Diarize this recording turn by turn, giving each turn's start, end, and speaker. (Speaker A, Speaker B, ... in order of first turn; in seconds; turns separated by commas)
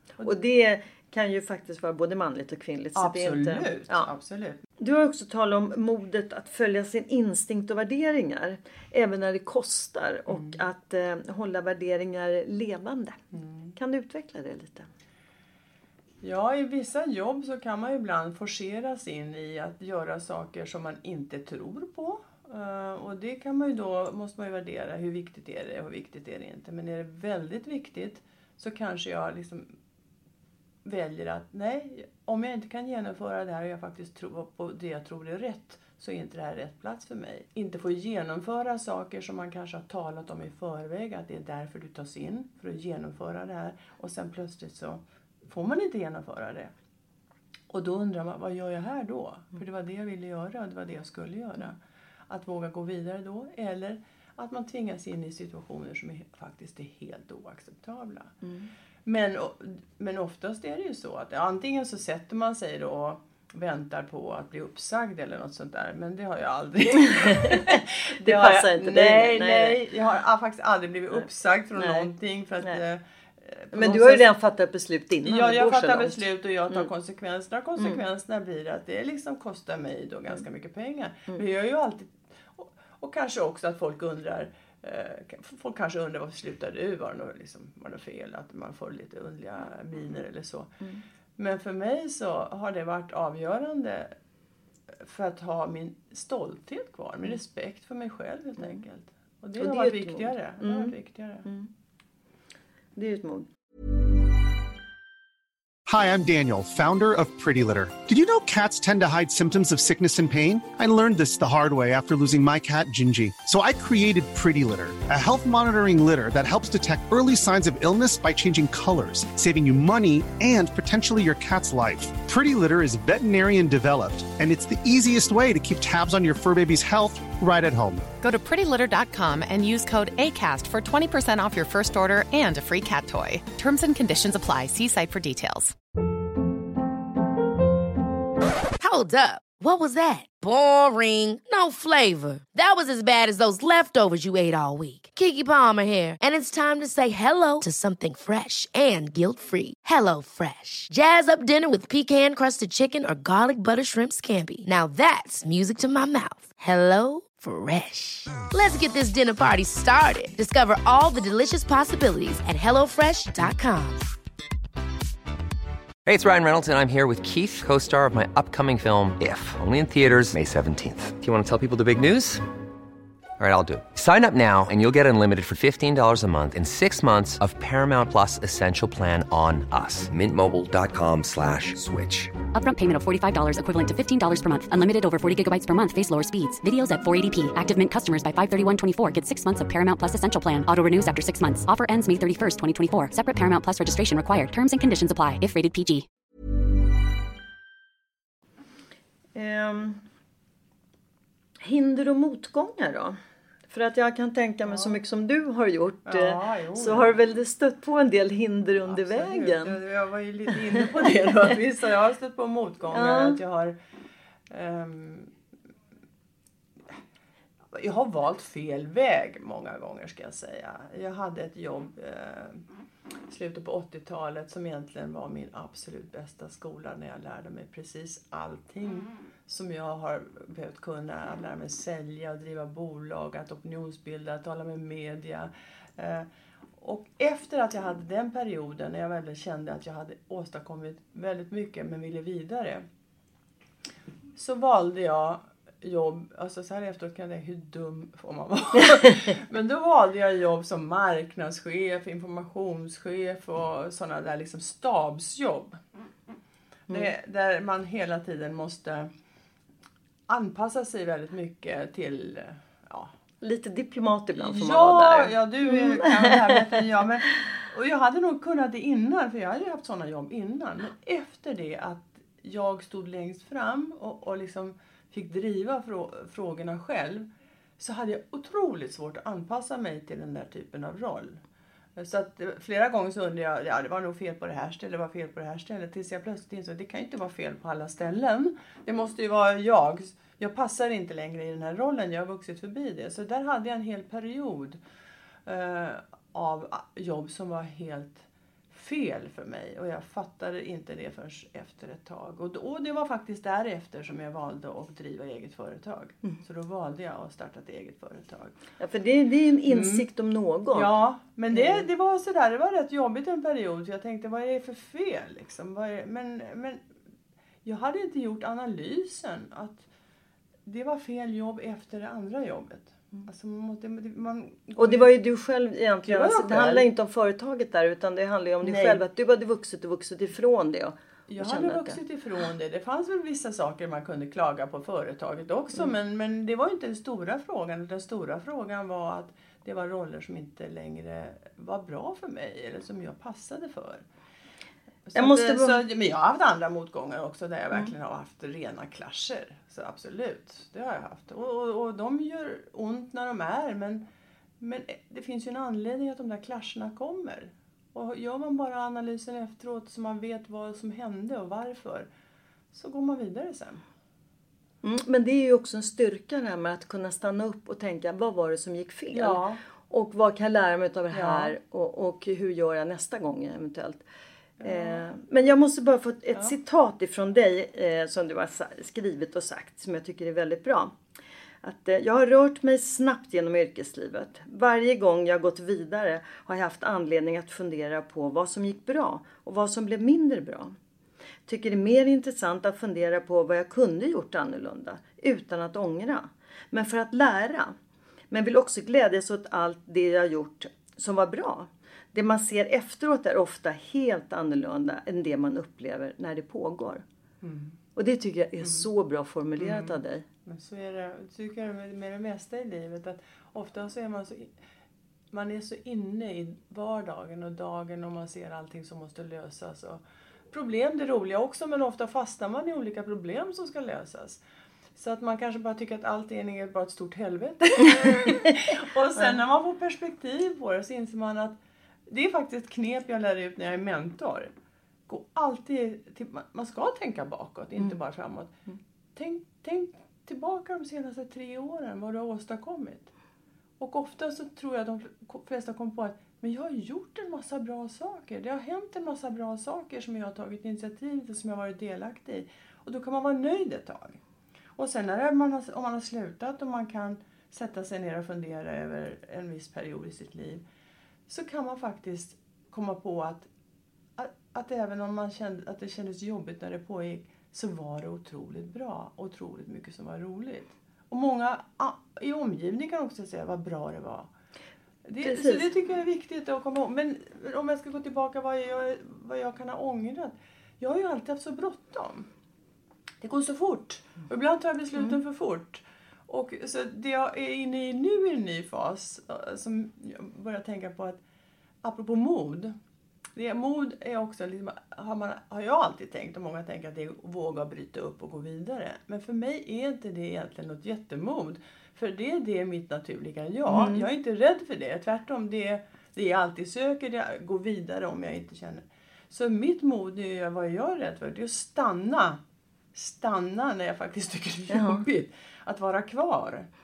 Speaker A: 0.2-4.1, Speaker B: 3.0-4.6, Speaker A: 4.8-13.2, Speaker B: 10.3-10.6, Speaker B: 13.3-13.8, Speaker A: 13.8-14.9, Speaker B: 16.2-29.7, Speaker B: 30.9-46.7, Speaker B: 47.7-51.8, Speaker B: 52.3-58.3, Speaker A: 58.4-58.7, Speaker B: 59.1-74.3, Speaker A: 67.1-69.8, Speaker A: 71.8-72.1, Speaker A: 73.7-76.9, Speaker B: 75.2-90.7, Speaker B: 91.4-94.1, Speaker B: 95.0-101.5, Speaker A: 99.6-101.7, Speaker A: 103.0-103.5, Speaker C: 105.9-128.1, Speaker D: 128.2-135.8, Speaker E: 138.8-164.1, Speaker F: 166.1-172.4, Speaker F: 173.4-182.4, Speaker G: 182.5-196.1, Speaker A: 199.3-200.0, Speaker A: 201.6-203.2, Speaker A: 203.7-209.8, Speaker B: 204.7-205.0, Speaker B: 206.1-207.1, Speaker B: 208.9-213.8, Speaker A: 212.9-213.4, Speaker B: 214.5-215.3, Speaker B: 217.7-222.6, Speaker B: 223.3-236.3, Speaker B: 236.8-242.8, Speaker B: 244.4-255.8, Speaker B: 256.9-259.1, Speaker B: 260.3-263.1, Speaker A: 263.4-266.8, Speaker B: 264.4-277.3, Speaker B: 277.8-281.4, Speaker B: 282.0-294.8, Speaker B: 295.5-308.6, Speaker A: 308.8-310.9, Speaker B: 309.7-310.1, Speaker B: 310.7-316.8, Speaker A: 311.5-311.9, Speaker B: 317.6-319.9, Speaker B: 320.7-325.1, Speaker A: 324.8-332.0, Speaker B: 326.1-326.9, Speaker B: 328.6-329.0, Speaker B: 331.3-344.0, Speaker B: 345.1-354.0, Speaker A: 345.1-345.8, Speaker B: 354.6-362.1, Speaker B: 362.7-363.8, Speaker A: 364.8-374.0, Speaker B: 369.1-369.6, Speaker B: 371.1-371.5, Speaker B: 374.6-375.1, Speaker A: 374.6-381.0, Speaker A: 381.6-390.8, Speaker A: 391.5-397.8, Speaker A: 398.3-407.0, Speaker B: 407.4-407.8, Speaker A: 408.0-410.2, Speaker B: 409.6-414.5, Speaker B: 415.3-424.4, Speaker B: 425.0-431.6, Speaker A: 427.9-428.5, Speaker B: 432.1-434.5, Speaker B: 435.1-438.5, Speaker B: 439.2-443.1, Speaker B: 443.8-454.2, Speaker B: 454.8-460.6, Speaker B: 461.3-463.5, Speaker B: 464.2-474.3, Speaker B: 475.1-482.3, Speaker A: 475.2-475.7, Speaker B: 483.2-491.2, Speaker B: 491.8-492.8, Speaker B: 493.4-512.4, Speaker A: 503.7-504.1, Speaker B: 513.0-516.7, Speaker A: 514.7-515.0